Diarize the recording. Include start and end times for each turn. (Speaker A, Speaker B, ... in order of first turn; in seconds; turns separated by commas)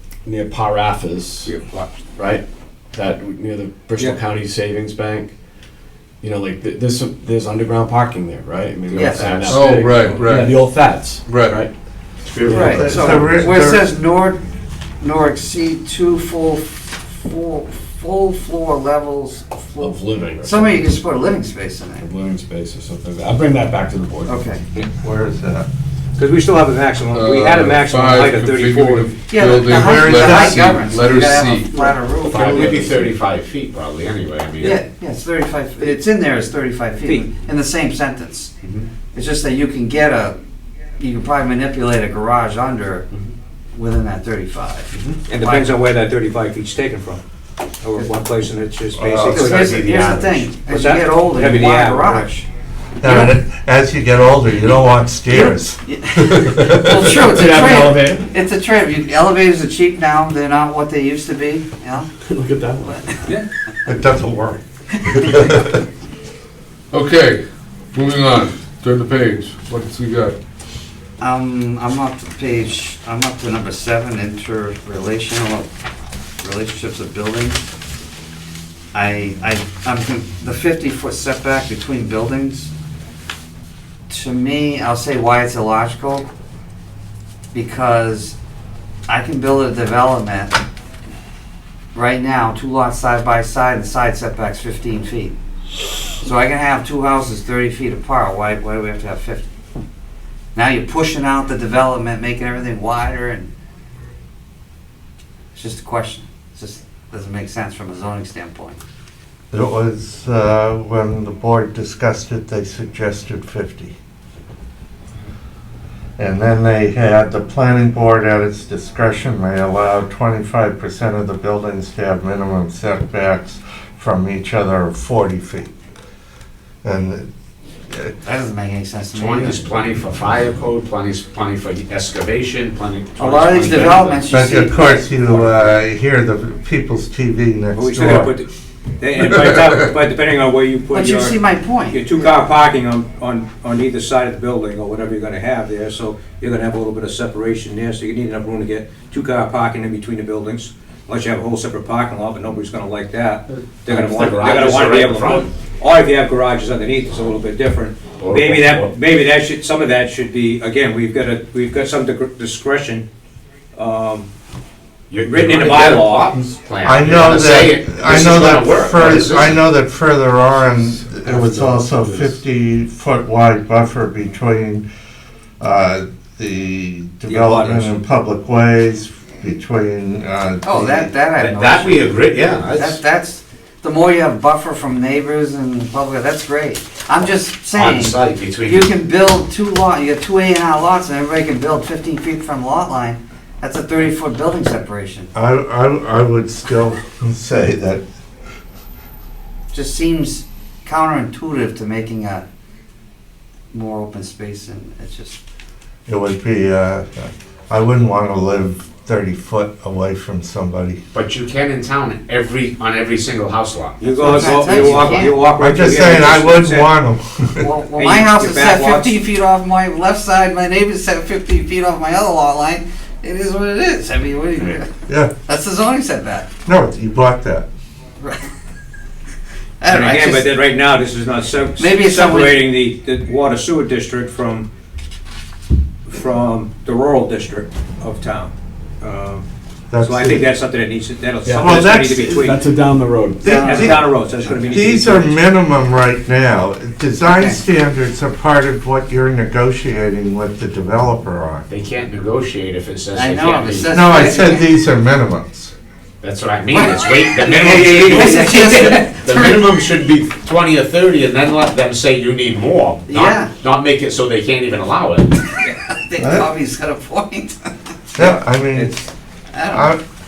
Speaker A: 0.2-1.5, Speaker B: 1.4-1.9, Speaker A: 2.1-5.3, Speaker A: 6.2-11.7, Speaker C: 8.9-9.6, Speaker D: 8.9-9.4, Speaker E: 9.5-10.7, Speaker E: 11.2-11.6, Speaker C: 12.2-12.8, Speaker A: 12.5-13.2, Speaker D: 12.5-14.4, Speaker F: 12.6-13.9, Speaker D: 15.0-22.0, Speaker A: 19.8-21.0, Speaker A: 22.0-24.4, Speaker D: 24.2-24.6, Speaker F: 24.7-25.7, Speaker B: 26.2-29.1, Speaker E: 27.1-31.8, Speaker D: 29.3-32.8, Speaker F: 29.7-30.7, Speaker A: 31.8-33.0, Speaker C: 32.3-34.8, Speaker D: 34.6-38.5, Speaker B: 37.0-37.2, Speaker D: 39.1-40.4, Speaker D: 41.0-43.1, Speaker D: 43.7-45.7, Speaker B: 45.3-47.2, Speaker B: 47.8-49.6, Speaker C: 49.2-50.4, Speaker D: 49.3-52.5, Speaker B: 50.7-52.3, Speaker F: 53.0-56.8, Speaker D: 53.0-53.3, Speaker D: 55.3-62.1, Speaker A: 57.3-58.3, Speaker A: 62.2-63.0, Speaker D: 62.9-63.2, Speaker F: 63.9-64.6, Speaker E: 66.9-67.4, Speaker E: 67.9-70.4, Speaker D: 71.2-75.7, Speaker D: 76.4-77.6, Speaker D: 78.9-82.7, Speaker D: 84.1-86.2, Speaker D: 87.5-88.4, Speaker D: 89.1-90.6, Speaker D: 91.9-95.3, Speaker D: 96.2-99.4, Speaker D: 100.5-103.5, Speaker D: 105.5-108.8, Speaker F: 109.5-113.9, Speaker F: 116.2-125.7, Speaker F: 126.8-127.3, Speaker D: 128.2-129.6, Speaker C: 129.1-134.2, Speaker D: 133.2-135.1, Speaker F: 134.3-138.3, Speaker B: 135.3-135.5, Speaker B: 137.7-138.5, Speaker B: 139.0-141.4, Speaker D: 140.9-142.2, Speaker B: 141.9-163.1, Speaker C: 153.8-155.5, Speaker C: 158.2-158.9, Speaker B: 163.7-164.3, Speaker C: 165.1-169.6, Speaker B: 165.2-166.3, Speaker F: 166.8-174.8, Speaker A: 171.2-172.3, Speaker F: 175.6-181.1, Speaker B: 177.3-178.0, Speaker D: 180.6-182.1, Speaker C: 181.4-183.0, Speaker D: 182.7-195.3, Speaker C: 187.7-188.9, Speaker F: 195.3-198.0, Speaker D: 199.7-202.4, Speaker D: 203.7-205.4, Speaker F: 206.1-211.0, Speaker C: 211.1-215.3, Speaker B: 214.0-216.9, Speaker D: 214.1-215.4, Speaker F: 215.6-217.7, Speaker D: 217.6-224.9, Speaker B: 217.9-219.2, Speaker F: 225.1-225.3, Speaker D: 225.4-226.5, Speaker F: 226.7-227.7, Speaker D: 228.2-228.5, Speaker D: 229.8-230.5, Speaker B: 229.9-234.7, Speaker D: 231.8-232.6, Speaker B: 236.1-239.4, Speaker F: 239.9-240.5, Speaker B: 240.0-242.6, Speaker A: 241.4-243.6, Speaker F: 241.5-242.5, Speaker D: 243.4-244.8, Speaker F: 243.4-244.0, Speaker B: 243.4-245.4, Speaker F: 244.7-251.6, Speaker D: 247.2-247.6, Speaker C: 251.7-254.2, Speaker D: 253.1-254.7, Speaker F: 253.9-255.7, Speaker C: 256.2-265.3, Speaker D: 257.5-259.6, Speaker B: 257.6-258.5, Speaker D: 263.1-263.5, Speaker D: 265.6-267.6, Speaker F: 266.2-266.5, Speaker F: 268.1-269.0, Speaker B: 268.2-268.9, Speaker D: 269.5-269.9, Speaker F: 269.7-270.0